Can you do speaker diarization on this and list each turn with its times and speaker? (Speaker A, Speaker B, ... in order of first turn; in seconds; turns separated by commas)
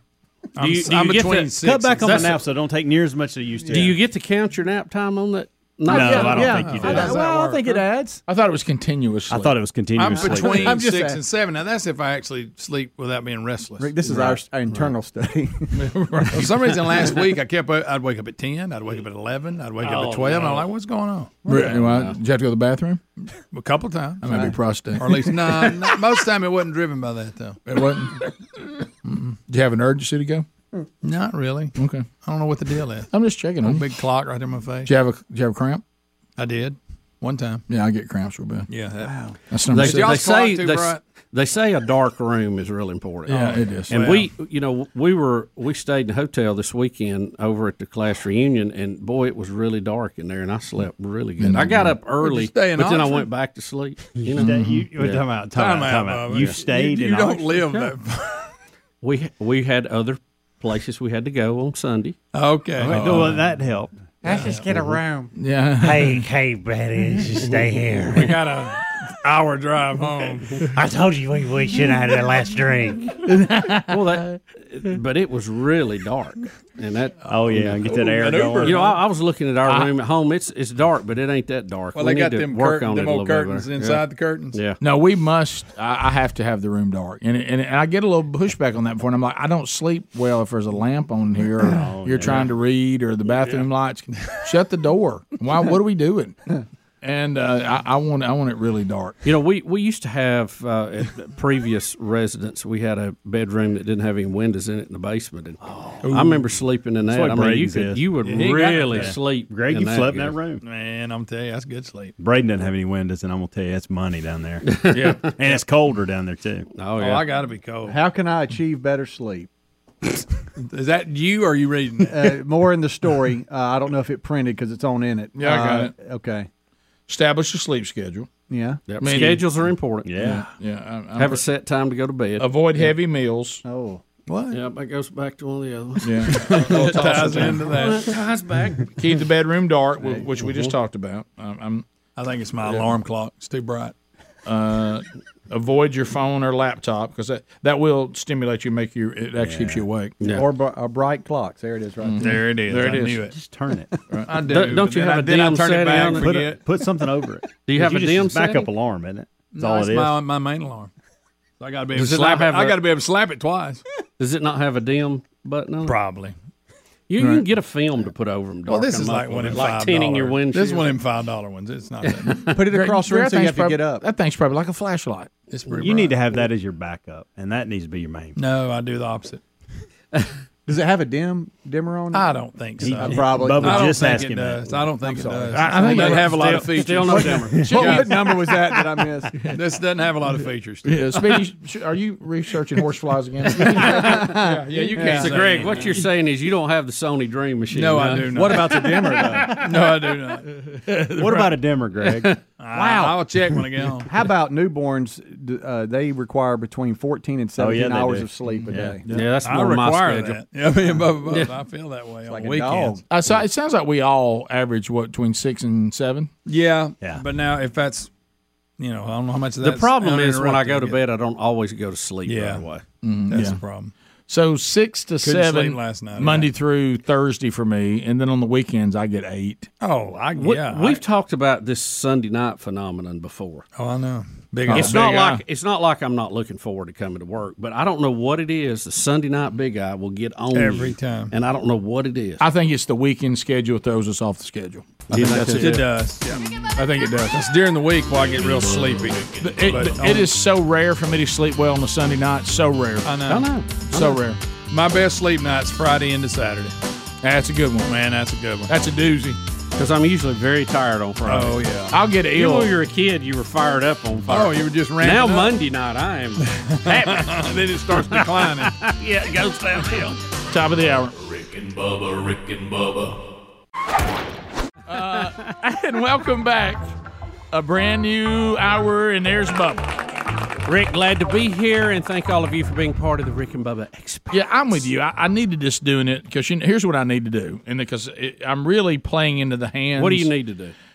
Speaker A: 0.6-2.4, Speaker B: 0.6-2.4, Speaker C: 1.2-4.0, Speaker D: 3.6-3.9, Speaker B: 3.7-6.6, Speaker C: 5.9-7.2, Speaker D: 5.9-8.2, Speaker A: 6.4-7.8, Speaker E: 6.9-7.2, Speaker E: 8.3-9.6, Speaker C: 9.3-10.8, Speaker A: 9.9-14.3, Speaker D: 10.1-11.2, Speaker D: 13.8-15.8, Speaker E: 15.7-16.9, Speaker A: 16.3-21.4, Speaker B: 19.8-20.7, Speaker D: 21.4-21.9, Speaker E: 21.4-23.0, Speaker B: 21.7-22.1, Speaker A: 23.5-27.6, Speaker E: 24.2-25.9, Speaker D: 24.3-24.5, Speaker E: 27.7-28.3, Speaker E: 29.0-30.4, Speaker A: 31.0-33.1, Speaker E: 31.8-32.1, Speaker E: 33.1-33.9, Speaker A: 33.6-34.9, Speaker E: 34.9-35.8, Speaker A: 36.4-37.6, Speaker E: 37.7-38.7, Speaker A: 38.7-41.0, Speaker D: 39.1-39.3, Speaker E: 39.5-40.2, Speaker B: 39.7-55.2, Speaker A: 43.3-44.3, Speaker E: 43.3-43.9, Speaker E: 51.4-51.9, Speaker A: 52.2-53.3, Speaker C: 54.2-57.6, Speaker E: 54.4-54.9, Speaker A: 55.5-58.5, Speaker B: 59.0-62.2, Speaker A: 62.3-63.4, Speaker C: 62.8-63.9, Speaker E: 62.9-63.4, Speaker A: 64.2-64.8, Speaker D: 64.3-65.3, Speaker E: 65.3-66.3, Speaker F: 65.8-68.3, Speaker A: 68.1-70.7, Speaker F: 70.8-73.1, Speaker B: 73.9-77.8, Speaker C: 77.2-78.8, Speaker A: 77.9-79.0, Speaker B: 78.6-84.8, Speaker E: 79.6-79.9, Speaker A: 81.9-84.6, Speaker E: 84.8-99.2, Speaker C: 91.7-92.5, Speaker B: 99.2-110.4, Speaker A: 106.0-106.5, Speaker C: 107.1-108.1, Speaker A: 108.2-109.2, Speaker C: 108.9-110.6, Speaker A: 110.6-112.1, Speaker C: 112.2-116.7, Speaker B: 114.7-115.2, Speaker E: 114.9-115.5, Speaker B: 116.7-117.3, Speaker A: 116.9-118.0, Speaker D: 117.8-119.5, Speaker A: 120.6-122.4, Speaker D: 122.0-126.5, Speaker E: 125.4-125.9, Speaker E: 127.1-128.3, Speaker D: 128.5-128.8, Speaker B: 128.9-130.4, Speaker E: 129.0-129.5, Speaker C: 130.0-130.5, Speaker E: 130.2-131.4, Speaker B: 131.2-132.5, Speaker E: 132.4-133.6, Speaker D: 133.6-134.0, Speaker A: 134.3-134.6, Speaker B: 134.5-138.9, Speaker E: 136.0-137.7, Speaker A: 136.6-138.1, Speaker E: 139.0-141.8, Speaker A: 142.2-143.9, Speaker E: 144.4-150.1, Speaker C: 149.4-149.8, Speaker D: 150.3-152.4, Speaker E: 152.0-153.3, Speaker A: 152.2-153.4, Speaker C: 153.3-153.9, Speaker A: 154.2-156.7, Speaker B: 154.4-156.4, Speaker C: 156.1-160.2, Speaker B: 157.7-158.7, Speaker A: 159.5-160.9, Speaker A: 161.6-163.8, Speaker B: 161.9-162.8, Speaker B: 164.2-166.0, Speaker A: 165.8-166.3, Speaker B: 167.1-171.0, Speaker A: 168.7-172.5, Speaker B: 172.2-172.5, Speaker D: 172.5-174.0, Speaker E: 172.7-175.3, Speaker A: 175.5-176.4, Speaker C: 175.8-178.4, Speaker A: 178.3-179.4, Speaker D: 180.7-184.1, Speaker A: 182.1-188.2, Speaker C: 182.8-185.3, Speaker D: 185.0-186.5, Speaker E: 185.5-186.5, Speaker B: 186.1-188.1, Speaker D: 187.1-189.5, Speaker E: 187.7-188.1, Speaker A: 189.5-190.9, Speaker E: 190.8-194.3, Speaker D: 193.7-195.3, Speaker A: 193.9-196.0, Speaker B: 194.9-198.7, Speaker A: 197.7-200.6, Speaker D: 198.3-199.7, Speaker E: 200.9-201.6, Speaker C: 201.2-202.3, Speaker B: 202.0-202.4, Speaker A: 202.6-204.1, Speaker D: 202.7-203.3, Speaker D: 204.0-209.0, Speaker C: 207.6-209.0, Speaker B: 209.1-210.4, Speaker A: 209.1-213.0, Speaker B: 211.2-211.5, Speaker D: 212.2-213.0, Speaker E: 213.1-216.3, Speaker A: 216.4-218.1, Speaker A: 218.8-221.0, Speaker B: 219.6-222.8, Speaker A: 222.2-222.7, Speaker E: 223.0-223.6, Speaker A: 223.3-223.9, Speaker E: 224.3-229.7, Speaker A: 225.2-226.5, Speaker A: 229.8-231.0, Speaker B: 230.3-233.6, Speaker A: 233.8-235.0, Speaker E: 234.7-235.4, Speaker B: 234.7-242.4, Speaker A: 240.5-241.3, Speaker E: 242.4-245.8, Speaker B: 245.1-245.9, Speaker A: 245.2-246.4, Speaker E: 246.7-247.4, Speaker A: 247.3-250.3, Speaker G: 248.1-249.9, Speaker E: 249.4-253.1, Speaker A: 253.0-253.5, Speaker B: 253.3-254.2, Speaker E: 253.9-254.4, Speaker A: 254.7-256.8, Speaker E: 257.2-258.0, Speaker A: 257.8-258.7, Speaker E: 258.7-259.4, Speaker B: 259.7-261.7, Speaker A: 261.2-262.0, Speaker E: 261.9-262.7, Speaker B: 262.3-270.2, Speaker A: 264.3-265.6, Speaker A: 266.5-268.8, Speaker E: 270.5-271.1, Speaker G: 271.2-273.2, Speaker E: 274.9-276.9, Speaker E: 277.5-279.9, Speaker B: 280.6-284.3, Speaker E: 284.3-290.3, Speaker B: 289.9-290.7